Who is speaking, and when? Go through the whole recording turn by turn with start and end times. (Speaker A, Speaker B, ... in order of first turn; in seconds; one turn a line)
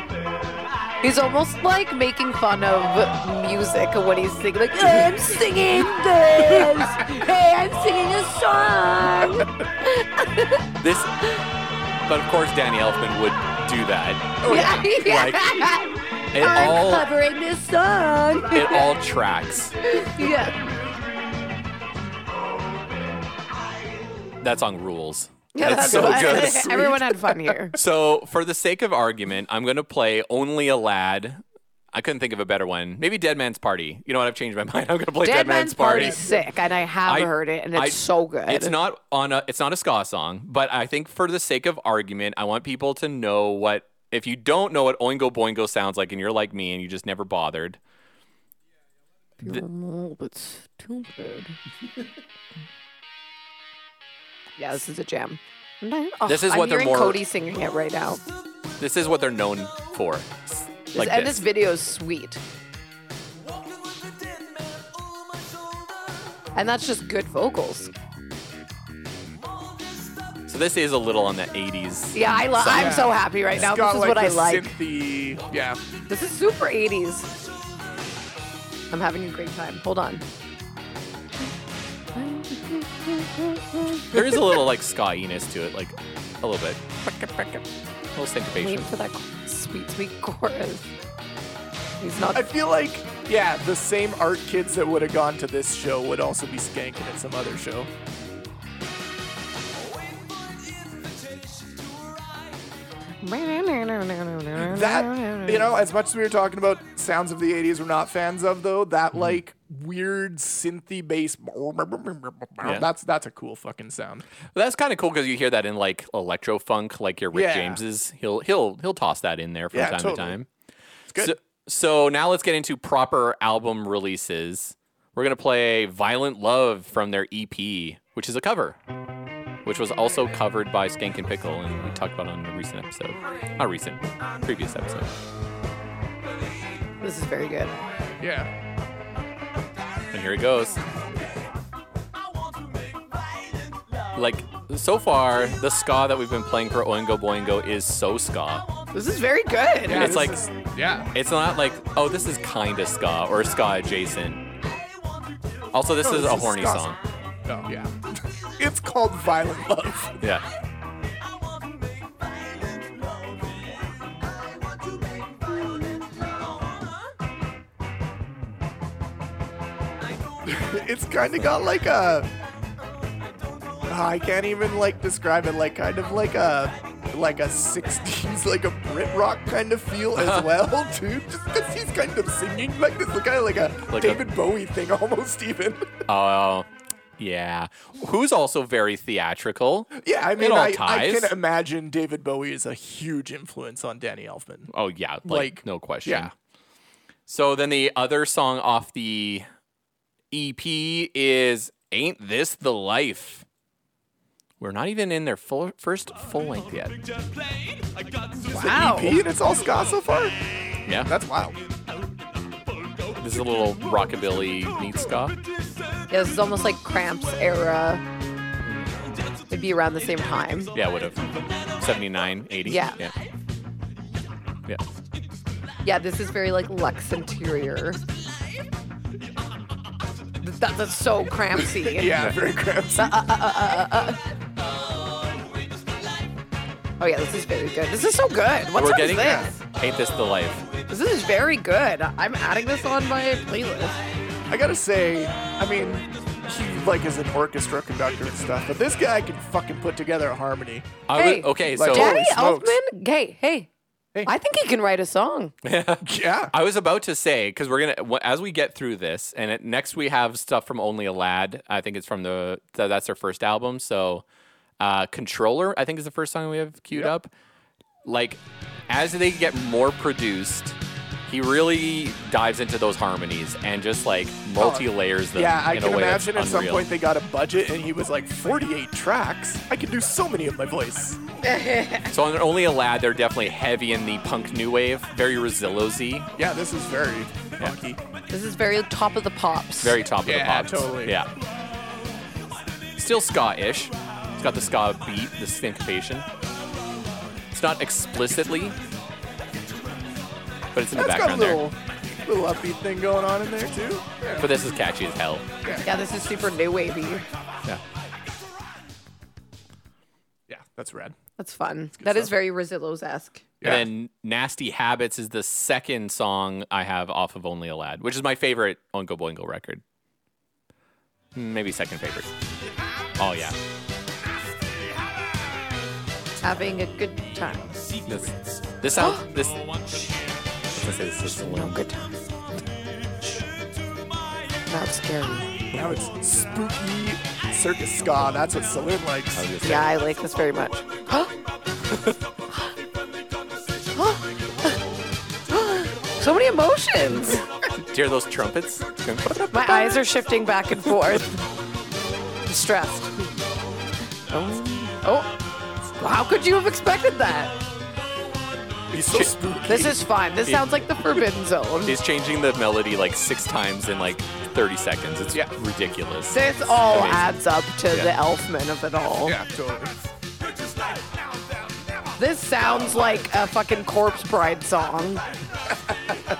Speaker A: 1.0-10.7
Speaker B: 6.4-7.2
Speaker B: 9.2-9.5
Speaker C: 10.8-11.3
Speaker C: 12.1-15.7
Speaker B: 14.4-14.9
Speaker A: 14.4-18.9
Speaker C: 16.3-17.1
Speaker C: 18.5-19.8
Speaker A: 19.8-20.6
Speaker C: 24.4-26.9
Speaker A: 25.6-27.8
Speaker B: 25.7-27.6
Speaker C: 27.8-31.4
Speaker C: 31.9-36.2
Speaker A: 35.2-38.7
Speaker B: 35.9-36.7
Speaker C: 37.1-47.8
Speaker A: 49.4-51.6
Speaker A: 54.6-58.2
Speaker C: 56.3-57.2
Speaker C: 58.8-61.4
Speaker A: 60.9-62.4
Speaker A: 66.5-67.9
Speaker C: 70.5-73.1
Speaker A: 72.1-74.7
Speaker B: 72.7-75.8
Speaker A: 76.1-77.3
Speaker A: 78.9-80.2
Speaker A: 82.1-84.6
Speaker C: 84.1-87.6
Speaker C: 88.2-88.9
Speaker A: 88.6-90.9
Speaker A: 92.0-92.4
Speaker B: 92.3-97.9
Speaker A: 103.2-105.7
Speaker B: 104.6-114.2
Speaker C: 112.6-112.9
Speaker C: 114.5-120.5
Speaker B: 117.3-117.8
Speaker B: 119.7-120.4
Speaker B: 121.1-121.3
Speaker C: 121.2-128.8
Speaker C: 129.6-135.1
Speaker A: 137.0-137.8
Speaker B: 138.2-138.5
Speaker C: 140.1-140.8
Speaker C: 144.2-148.7
Speaker A: 148.9-150.2
Speaker B: 149.8-151.1
Speaker C: 149.9-150.5
Speaker C: 151.1-154.4
Speaker C: 155.7-157.0
Speaker B: 156.0-156.9
Speaker B: 157.5-160.2
Speaker B: 170.4-172.3
Speaker B: 173.9-186.0
Speaker C: 180.2-180.5
Speaker C: 183.9-184.2
Speaker C: 186.1-191.3
Speaker B: 189.9-194.7
Speaker C: 194.7-196.3
Speaker B: 195.2-196.3
Speaker C: 197.3-199.5
Speaker C: 200.3-203.4
Speaker C: 204.6-207.0
Speaker A: 208.4-209.2
Speaker B: 208.4-210.3
Speaker C: 210.9-211.1
Speaker B: 211.1-211.6
Speaker C: 213.2-215.4
Speaker A: 216.1-218.0
Speaker A: 219.5-220.8
Speaker C: 220.7-223.1
Speaker A: 222.7-223.0
Speaker A: 225.8-228.0
Speaker A: 230.4-232.2
Speaker B: 231.8-233.2
Speaker A: 232.9-234.2
Speaker A: 237.0-239.6
Speaker C: 238.8-240.7
Speaker A: 240.9-244.0
Speaker B: 244.5-250.9
Speaker C: 251.1-252.2
Speaker A: 251.2-253.7
Speaker B: 251.7-252.8
Speaker A: 254.3-255.5
Speaker C: 255.6-264.2
Speaker B: 256.0-256.5
Speaker C: 264.8-267.3
Speaker C: 268.1-276.9
Speaker B: 274.6-281.2
Speaker A: 281.4-282.1
Speaker C: 282.1-286.3
Speaker B: 286.4-288.0
Speaker A: 288.3-290.0
Speaker C: 289.8-291.3
Speaker B: 290.2-291.2
Speaker C: 293.0-296.3
Speaker C: 297.5-298.8
Speaker C: 300.7-301.6
Speaker B: 300.9-304.6
Speaker C: 304.4-305.5
Speaker B: 305.6-305.9
Speaker A: 305.8-307.3
Speaker B: 310.5-311.2
Speaker A: 311.4-313.5
Speaker B: 312.0-312.3
Speaker B: 313.6-313.9
Speaker C: 313.6-319.8
Speaker C: 321.4-322.3
Speaker C: 323.2-323.6
Speaker A: 326.4-327.8
Speaker C: 328.1-329.9
Speaker A: 329.0-329.2
Speaker C: 330.7-331.8
Speaker A: 331.3-332.2
Speaker A: 334.7-335.5
Speaker B: 335.7-339.5
Speaker C: 339.4-339.9
Speaker A: 339.6-341.3
Speaker C: 341.9-342.2
Speaker A: 343.9-344.8
Speaker A: 345.5-347.5
Speaker C: 347.7-350.0
Speaker A: 349.5-351.4
Speaker A: 352.5-353.2
Speaker A: 354.3-355.3
Speaker A: 356.0-357.6
Speaker C: 358.9-359.3
Speaker B: 358.9-360.0
Speaker A: 359.7-362.0
Speaker C: 360.5-360.8
Speaker C: 361.9-367.3
Speaker A: 366.3-369.4
Speaker B: 369.2-370.1
Speaker A: 372.2-375.2